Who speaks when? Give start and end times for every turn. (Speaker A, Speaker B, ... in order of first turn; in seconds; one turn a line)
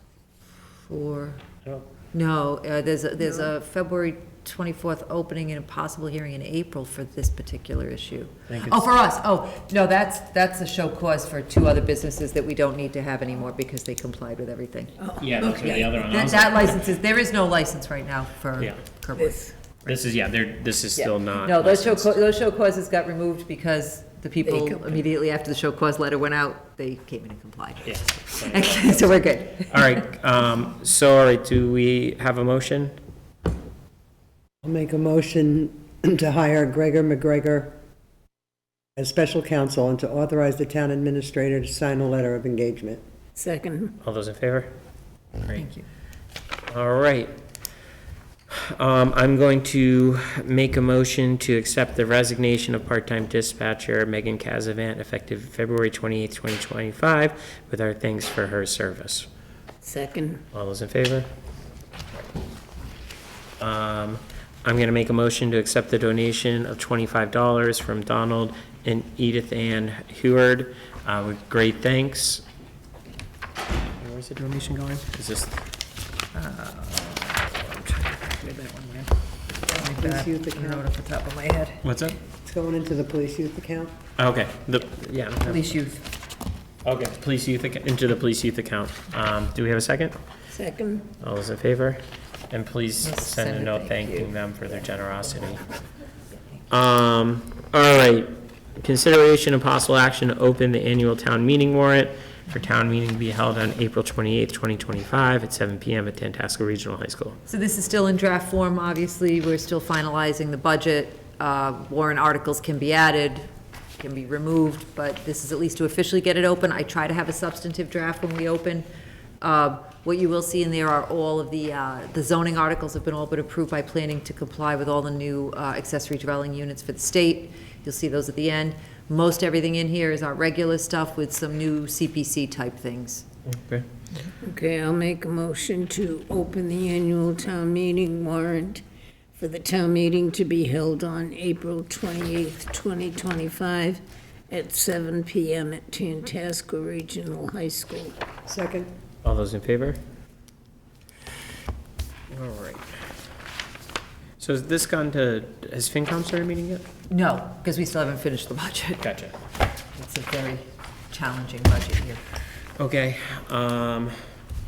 Speaker A: 0.7-1.4
Speaker A: 2.1-15.0
Speaker B: 8.5-8.9
Speaker C: 15.0-15.9
Speaker B: 15.2-16.9
Speaker A: 15.5-19.9
Speaker B: 18.6-18.8
Speaker C: 19.1-19.5
Speaker B: 19.9-22.2
Speaker A: 20.9-29.8
Speaker C: 24.4-25.0
Speaker B: 27.8-29.2
Speaker B: 29.7-33.0
Speaker D: 34.6-37.8
Speaker D: 39.0-43.0
Speaker C: 43.3-43.9
Speaker B: 44.0-44.7
Speaker B: 45.4-45.7
Speaker A: 45.6-45.8
Speaker B: 46.7-47.3
Speaker B: 48.5-59.3
Speaker C: 59.8-60.4
Speaker B: 60.5-61.3
Speaker B: 63.6-72.4
Speaker B: 74.0-75.5
Speaker A: 76.3-79.1
Speaker A: 79.6-81.8
Speaker D: 79.8-80.8
Speaker B: 81.8-82.2
Speaker D: 82.4-83.9
Speaker B: 84.2-85.7
Speaker A: 85.4-86.0
Speaker B: 86.8-90.1
Speaker C: 90.5-91.1
Speaker B: 91.2-95.6
Speaker A: 93.0-94.3
Speaker B: 96.7-107.4
Speaker A: 107.5-118.8
Speaker A: 119.4-133.2
Speaker B: 133.4-133.8
Speaker C: 134.4-138.8
Speaker C: 139.3-148.2
Speaker D: 148.4-148.9
Speaker B: 149.2-150.0
Speaker B: 152.3-152.8
Speaker B: 154.4-156.8
Speaker A: 157.1-159.0
Speaker B: 159.0-159.3
Speaker A: 159.9-162.2
Speaker B: 162.8-164.2